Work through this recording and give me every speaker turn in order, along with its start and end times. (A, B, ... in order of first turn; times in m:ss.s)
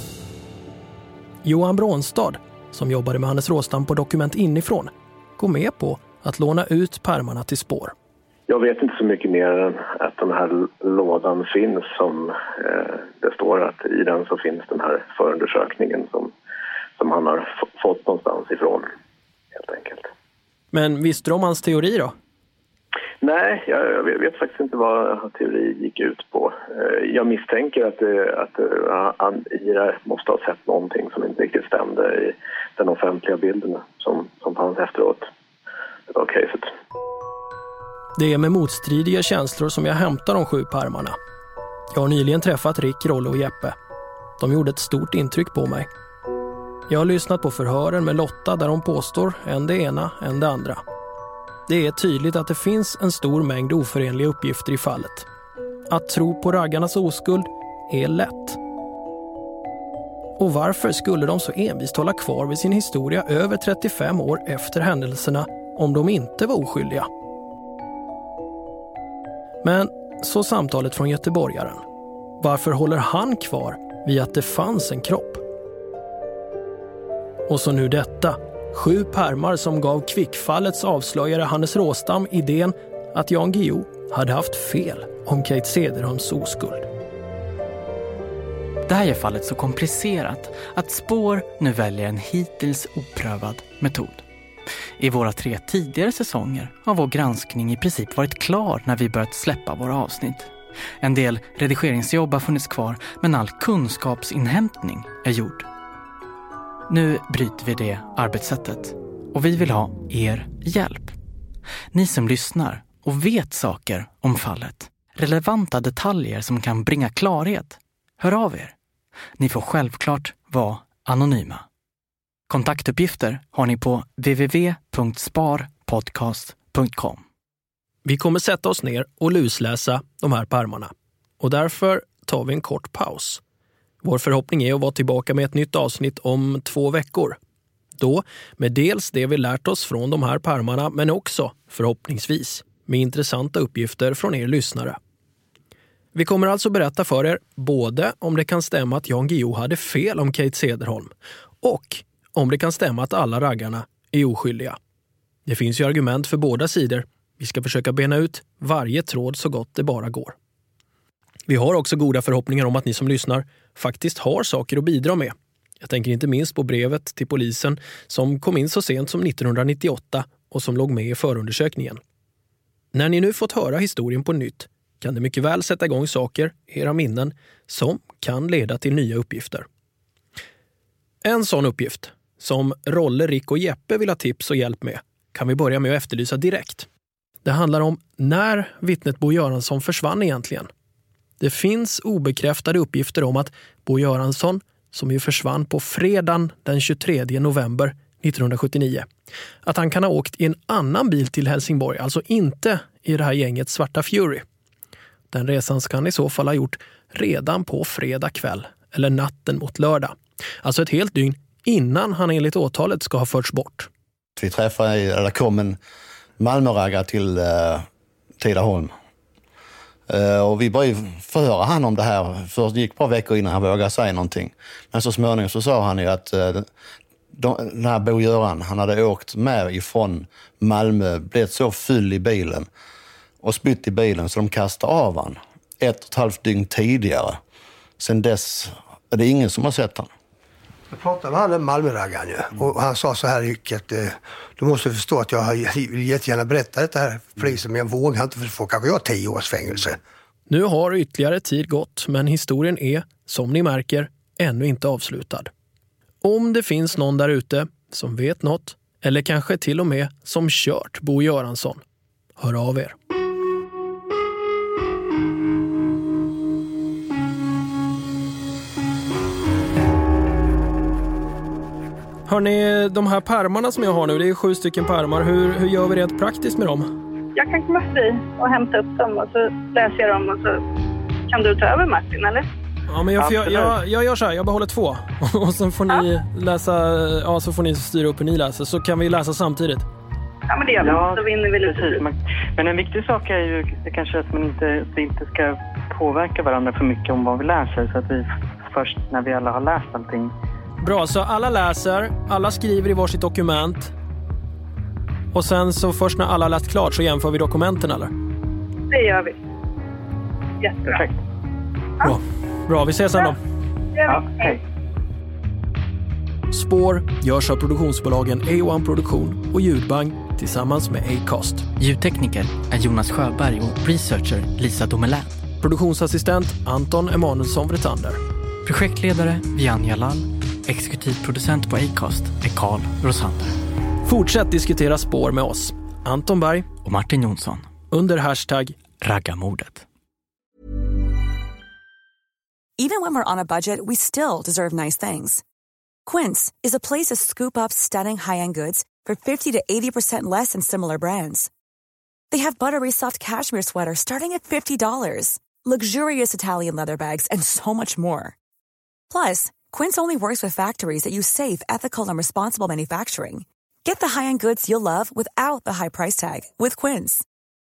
0:01.4-0:07.9 A
0:08.5-0:16.3 B
0:17.0-0:18.9 B
0:19.5-0:20.1 B
0:20.7-0:22.1 A
0:23.2-0:35.3 B
0:36.1-0:36.7 B
0:38.2-0:41.2 A
0:41.9-0:43.7 A
0:44.4-0:45.9 A
0:46.9-0:50.8 A
0:51.7-0:55.3 A
0:55.9-0:58.6 A
1:00.4-1:07.1 A
1:09.6-1:11.8 A
1:12.4-1:15.4 A
1:17.5-1:26.9 A
1:28.9-1:34.2 C
1:35.0-1:45.7 C
1:46.9-1:51.1 C
1:51.9-1:58.7 C
1:59.4-2:01.6 C
2:02.5-2:07.2 C
2:08.0-2:13.4 A
2:14.0-2:17.4 A
2:18.0-2:25.0 A
2:26.1-2:31.1 A
2:31.6-2:34.8 A
2:35.4-2:40.4 A
2:41.5-2:52.0 A
2:52.9-2:59.6 A
3:01.2-3:06.9 A
3:07.4-3:10.7 A
3:11.4-3:19.1 A
3:19.6-3:24.4 A
3:25.3-3:33.9 A
3:34.4-3:35.8 D
3:36.4-3:37.8 D
3:38.4-3:38.9 D
3:40.1-3:46.7 D
3:47.3-3:52.7 D
3:53.4-3:57.4 D
3:58.0-4:00.1 D
4:00.9-4:10.0 E
4:10.5-4:15.5 A
4:16.2-4:21.8 A
4:22.4-4:22.9 A
4:32.3-4:36.9 A
4:37.3-4:40.6 F
4:41.3-4:42.4 F
4:42.9-4:49.8 A
4:43.2-4:43.8 G
4:50.5-4:52.0 F
4:50.7-5:00.3 G
5:00.8-5:03.9 A
5:05.3-5:08.1 A
5:08.9-5:09.4 F
5:10.6-5:11.0 F
5:10.8-5:11.2 G
5:12.0-5:13.4 A
5:14.0-5:14.6 F
5:14.0-5:14.6 G
5:16.5-5:21.7 A
5:21.8-5:25.4 C
5:25.6-5:28.2 A
5:28.6-5:33.6 C
5:34.0-5:36.7 A
5:36.8-5:37.7 C
5:37.9-5:38.8 A
5:39.0-5:39.8 C
5:42.8-5:45.4 H
5:46.0-5:51.5 H
5:52.3-5:58.3 H
5:59.1-6:07.2 H